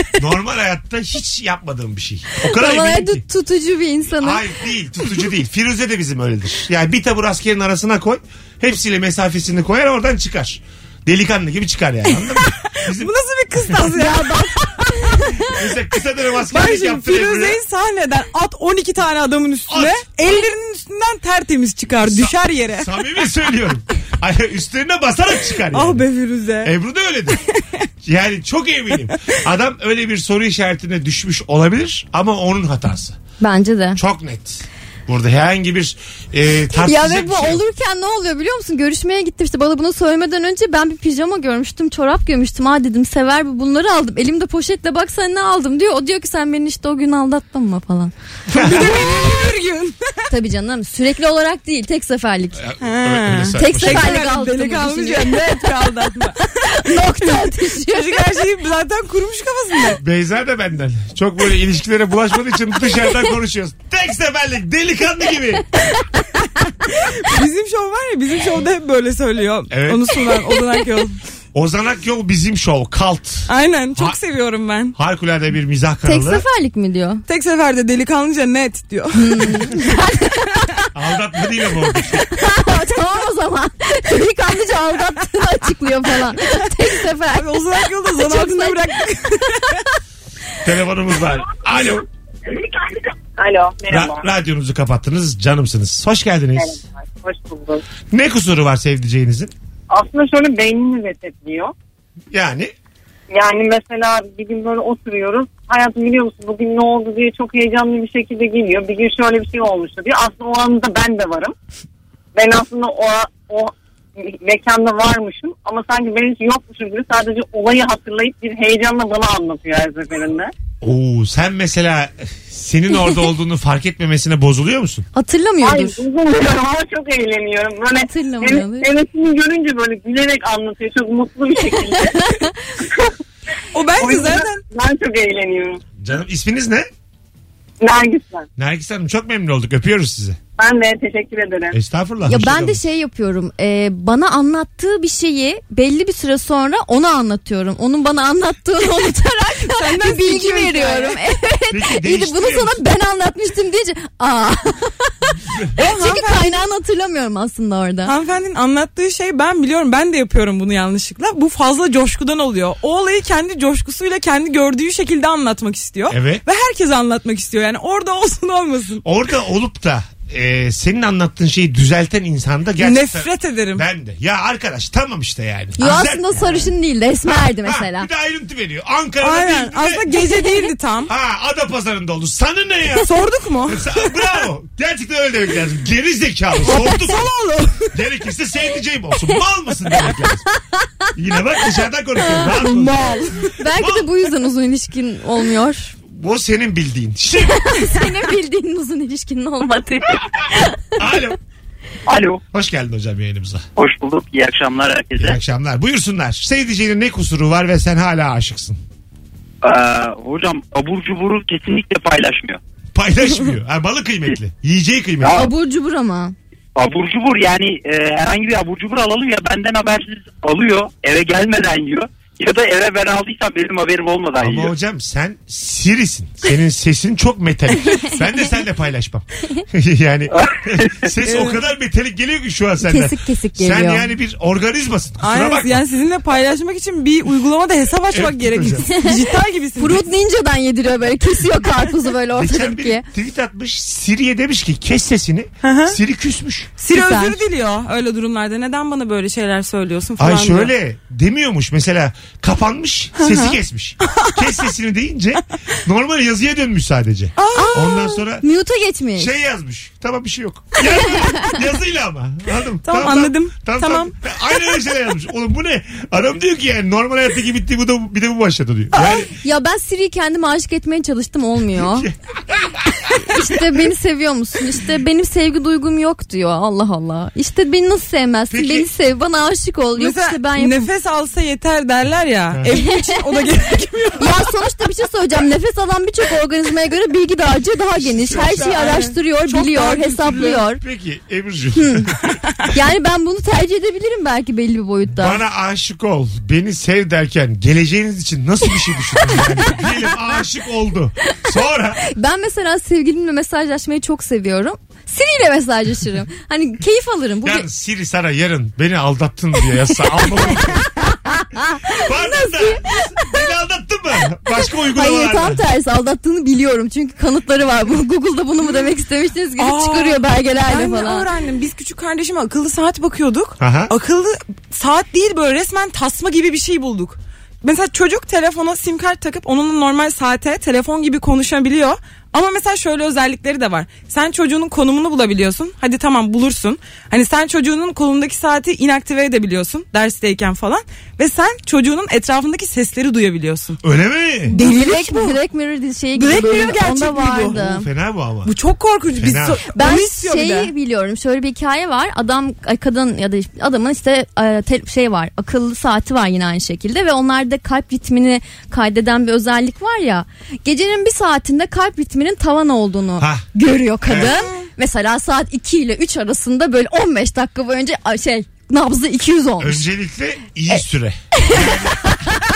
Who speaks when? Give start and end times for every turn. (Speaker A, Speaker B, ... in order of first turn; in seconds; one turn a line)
Speaker A: 0.2-3.2
Speaker B: 2.4-4.5
Speaker A: 4.2-13.1
Speaker C: 12.8-15.3
Speaker B: 13.9-14.5
Speaker A: 15.5-17.6
Speaker C: 16.5-22.9
Speaker A: 19.7-20.0
Speaker A: 22.0-26.0
Speaker C: 25.7-26.7
Speaker A: 26.6-27.4
Speaker A: 28.0-33.2
Speaker B: 33.4-34.0
Speaker A: 34.0-37.6
Speaker B: 36.7-48.1
Speaker A: 48.5-49.1
Speaker C: 48.5-50.1
Speaker B: 50.3-52.6
Speaker A: 52.6-54.2
Speaker C: 52.8-60.0
Speaker B: 53.5-55.4
Speaker B: 56.7-58.2
Speaker A: 60.0-65.7
Speaker C: 66.8-71.2
Speaker A: 69.7-70.1
Speaker A: 71.5-74.2
Speaker C: 73.5-74.9
Speaker A: 74.9-76.4
Speaker B: 76.0-77.2
Speaker C: 77.3-79.7
Speaker B: 79.2-80.6
Speaker A: 80.9-82.3
Speaker B: 82.3-87.5
Speaker C: 87.3-89.8
Speaker B: 88.2-88.8
Speaker A: 90.6-92.1
Speaker D: 92.5-94.2
Speaker A: 93.9-96.8
Speaker D: 96.6-97.8
Speaker A: 98.1-99.5
Speaker D: 99.9-101.7
Speaker A: 102.3-102.7
Speaker D: 103.3-111.5
Speaker D: 112.3-120.5
Speaker A: 120.8-125.0
Speaker B: 125.1-126.0
Speaker D: 125.6-132.4
Speaker B: 128.1-128.9
Speaker C: 133.7-134.6
Speaker D: 133.9-135.8
Speaker A: 136.0-136.9
Speaker D: 137.8-138.4
Speaker A: 138.6-140.4
Speaker D: 140.6-141.8
Speaker A: 141.7-142.8
Speaker B: 142.2-155.1
Speaker C: 149.7-151.2
Speaker A: 151.7-152.8
Speaker B: 155.7-158.1
Speaker C: 155.8-156.6
Speaker C: 158.0-169.0
Speaker A: 166.1-166.4
Speaker A: 169.0-176.7
Speaker C: 172.8-173.8
Speaker B: 175.8-178.1
Speaker A: 177.2-180.1
Speaker C: 179.2-181.1
Speaker A: 181.1-183.1
Speaker C: 183.0-183.9
Speaker A: 183.7-187.3
Speaker C: 186.6-187.9
Speaker A: 187.9-190.4
Speaker A: 191.2-193.2
Speaker C: 192.5-193.5
Speaker B: 193.6-195.9
Speaker A: 193.7-194.1
Speaker A: 196.1-197.7
Speaker B: 197.5-200.8
Speaker A: 200.9-201.4
Speaker E: 202.1-202.4
Speaker A: 202.5-203.6
Speaker E: 203.8-205.4
Speaker A: 205.2-208.8
Speaker E: 209.6-212.6
Speaker A: 212.9-215.5
Speaker B: 215.2-216.3
Speaker E: 216.8-224.7
Speaker A: 224.4-235.8
Speaker C: 231.2-231.6
Speaker B: 232.8-234.1
Speaker C: 235.2-240.0
Speaker A: 238.1-238.9
Speaker B: 238.9-239.2
Speaker B: 239.8-243.0
Speaker A: 242.3-246.7
Speaker C: 245.6-245.9
Speaker C: 246.8-250.7
Speaker B: 246.9-247.4
Speaker A: 250.2-258.4
Speaker C: 253.2-254.4
Speaker C: 257.4-258.1
Speaker B: 257.6-259.3
Speaker A: 259.2-269.3
Speaker C: 262.8-264.1
Speaker B: 269.3-272.1
Speaker A: 271.8-273.1
Speaker B: 273.2-280.8
Speaker A: 278.5-278.9
Speaker C: 280.0-284.5
Speaker B: 282.7-283.2
Speaker B: 284.2-290.8
Speaker A: 288.0-288.7
Speaker C: 288.3-290.6
Speaker A: 290.8-292.4
Speaker B: 291.8-292.1
Speaker B: 292.7-295.4
Speaker A: 295.1-302.0
Speaker B: 302.0-307.7
Speaker A: 307.4-310.9
Speaker B: 311.3-312.8
Speaker A: 311.9-315.6
Speaker B: 314.9-321.2
Speaker C: 319.6-343.8
Speaker A: 323.6-323.9
Speaker A: 343.8-344.5
Speaker C: 344.5-345.4
Speaker B: 344.5-347.9
Speaker C: 346.1-347.6
Speaker A: 347.5-348.5
Speaker C: 348.4-350.7
Speaker A: 349.2-349.6
Speaker B: 349.7-369.9
Speaker A: 363.2-363.4
Speaker A: 364.0-364.3
Speaker C: 364.2-364.5
Speaker A: 369.6-372.2
Speaker B: 371.4-372.1